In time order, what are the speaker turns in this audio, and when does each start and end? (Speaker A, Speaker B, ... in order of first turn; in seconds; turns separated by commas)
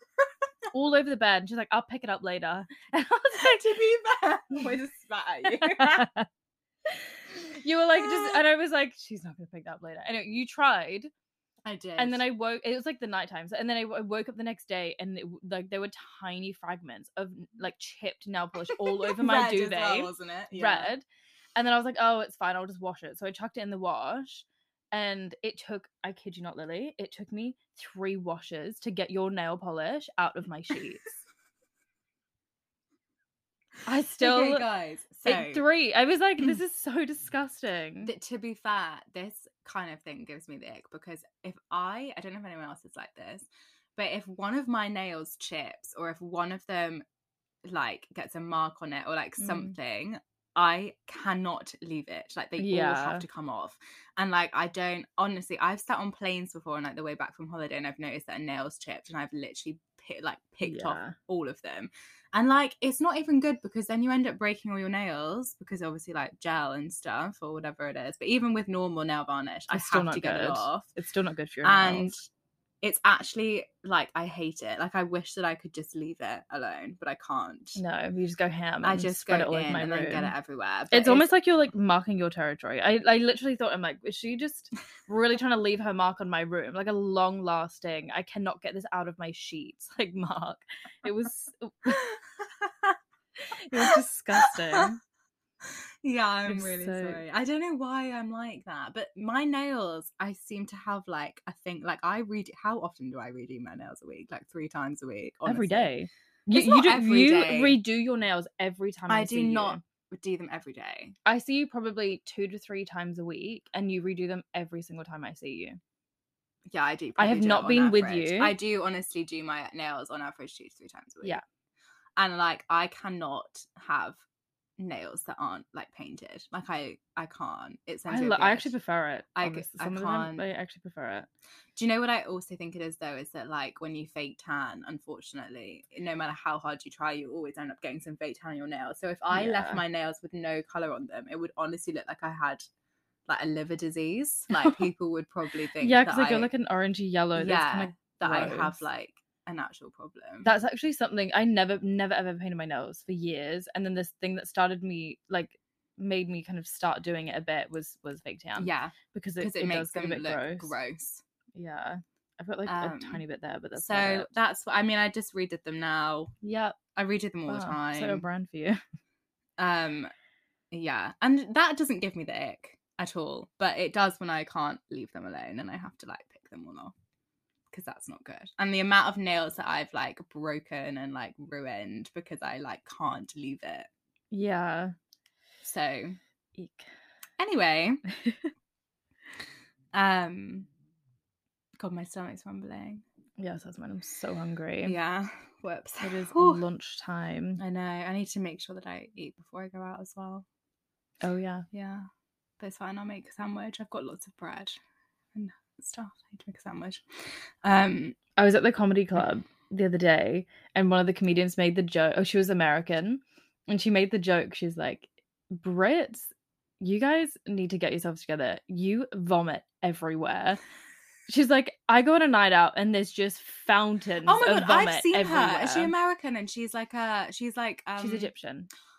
Speaker A: 0.7-3.7, Speaker B: 3.4-6.1, Speaker A: 5.5-6.3, Speaker A: 6.9-11.1, Speaker B: 8.0-8.4, Speaker B: 11.7-12.2, Speaker A: 12.0-21.1, Speaker B: 18.8-20.9, Speaker A: 21.6-31.1, Speaker A: 33.9-34.7, Speaker B: 34.2-35.6, Speaker A: 35.3-38.1, Speaker B: 38.0-47.0, Speaker B: 47.6-70.9, Speaker A: 49.4-49.7, Speaker A: 52.6-53.2, Speaker A: 60.6-61.2, Speaker A: 69.7-72.2, Speaker B: 71.6-72.2, Speaker B: 72.8-77.8, Speaker A: 77.8-80.3, Speaker B: 78.8-81.3, Speaker A: 80.9-92.0, Speaker B: 91.9-93.0, Speaker A: 93.4-95.0, Speaker B: 93.8-94.9, Speaker B: 95.7-105.9, Speaker A: 96.5-97.2, Speaker A: 105.5-109.8, Speaker B: 106.5-107.8, Speaker B: 109.1-111.2, Speaker A: 111.2-115.8, Speaker B: 116.7-121.4, Speaker A: 117.2-118.5, Speaker B: 122.2-124.2, Speaker B: 124.8-128.7, Speaker A: 128.1-131.3, Speaker B: 129.4-130.4, Speaker B: 131.8-142.6, Speaker A: 139.3-139.8, Speaker B: 143.3-146.5, Speaker A: 144.5-144.9, Speaker A: 145.8-148.8, Speaker B: 147.4-150.5, Speaker A: 150.4-160.8, Speaker B: 158.6-161.2, Speaker A: 161.6-164.3, Speaker B: 162.7-163.2, Speaker B: 163.8-166.3, Speaker A: 166.4-166.8, Speaker B: 166.9-168.2, Speaker A: 167.5-168.8, Speaker B: 169.6-170.1, Speaker B: 170.7-176.9, Speaker B: 177.7-183.9, Speaker A: 184.3-184.9, Speaker B: 185.6-186.2, Speaker A: 186.6-186.9, Speaker B: 187.4-188.0, Speaker A: 188.1-188.5, Speaker B: 189.9-190.7, Speaker B: 191.8-193.0, Speaker A: 193.4-195.0, Speaker B: 194.8-196.6, Speaker A: 196.0-197.6, Speaker B: 197.6-200.5, Speaker A: 201.2-201.7, Speaker B: 201.7-202.1, Speaker B: 202.6-204.8, Speaker B: 205.3-208.2, Speaker A: 208.4-220.6, Speaker A: 221.3-225.9, Speaker B: 224.3-228.3, Speaker A: 228.0-228.7